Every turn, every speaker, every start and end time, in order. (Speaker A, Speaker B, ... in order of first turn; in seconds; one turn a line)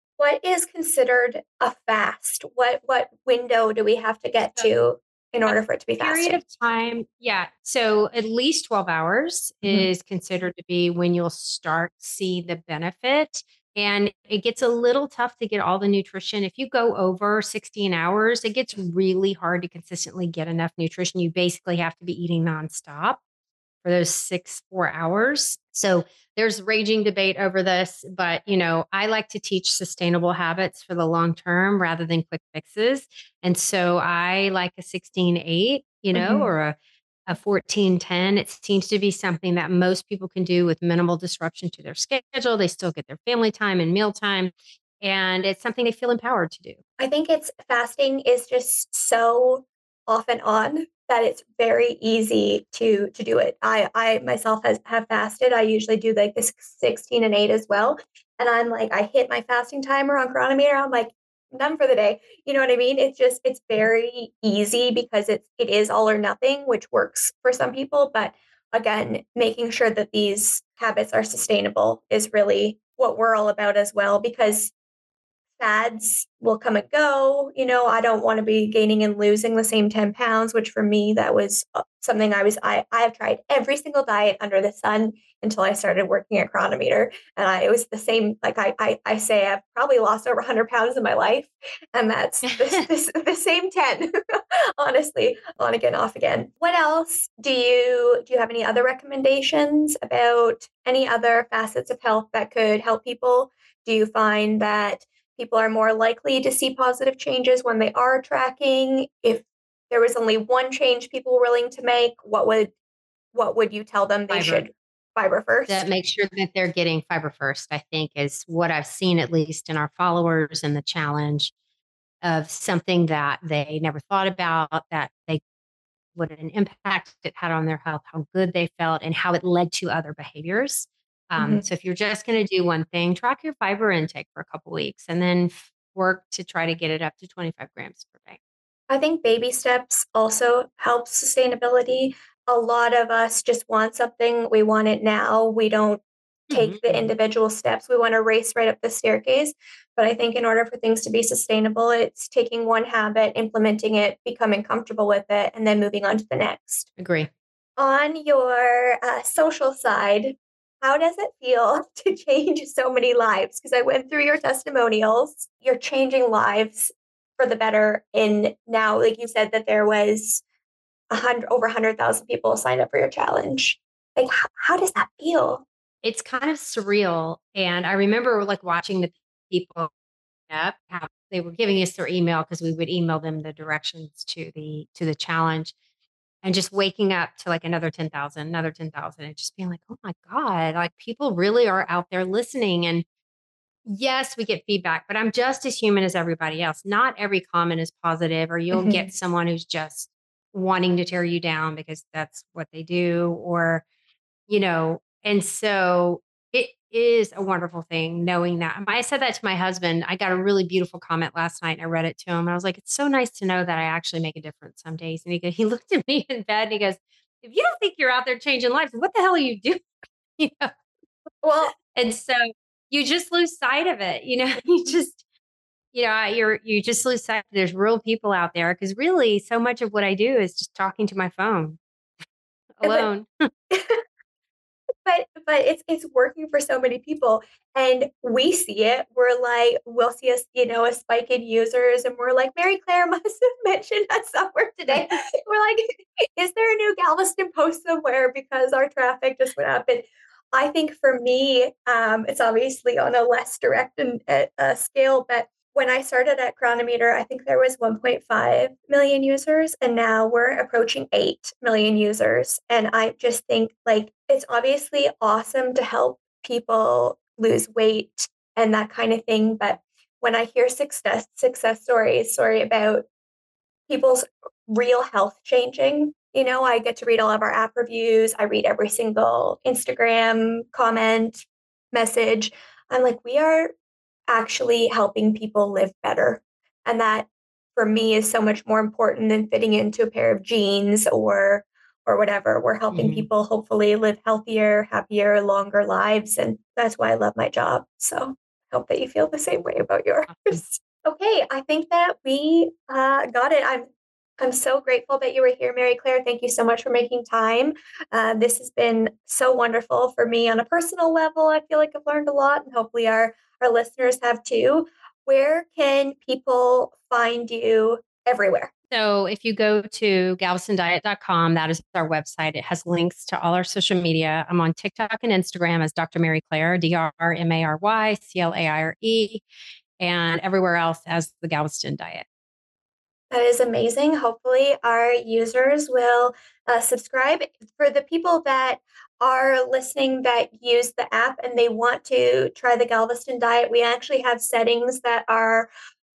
Speaker A: 0.2-6.4
Speaker B: 5.4-23.2
Speaker A: 9.6-9.9
Speaker B: 23.8-46.8
Speaker A: 36.1-36.5
Speaker A: 47.0-74.7
Speaker A: 75.6-94.1
Speaker B: 92.5-92.8
Speaker A: 94.8-112.7
Speaker A: 113.3-115.9
Speaker B: 114.3-114.6
Speaker B: 115.7-121.5
Speaker B: 122.2-125.4
Speaker B: 126.1-138.4
Speaker A: 131.4-131.6
Speaker A: 138.9-156.9
Speaker B: 146.5-147.1
Speaker B: 157.0-157.3
Speaker A: 157.8-170.4
Speaker A: 171.1-175.6
Speaker B: 176.0-179.9
Speaker B: 180.5-185.7
Speaker B: 186.4-193.0
Speaker B: 193.8-203.8
Speaker A: 198.7-199.1
Speaker B: 204.5-219.8
Speaker B: 220.4-220.7
Speaker A: 221.4-221.7
Speaker B: 221.8-225.2
Speaker B: 225.9-231.8
Speaker B: 232.8-233.3
Speaker A: 232.8-233.1
Speaker A: 233.7-234.0
Speaker A: 235.0-273.1
Speaker A: 273.9-283.7
Speaker A: 284.3-303.9
Speaker B: 292.9-293.3
Speaker B: 300.3-300.6
Speaker A: 304.4-318.7
Speaker B: 318.9-329.4
Speaker B: 330.0-332.2
Speaker A: 333.3-345.7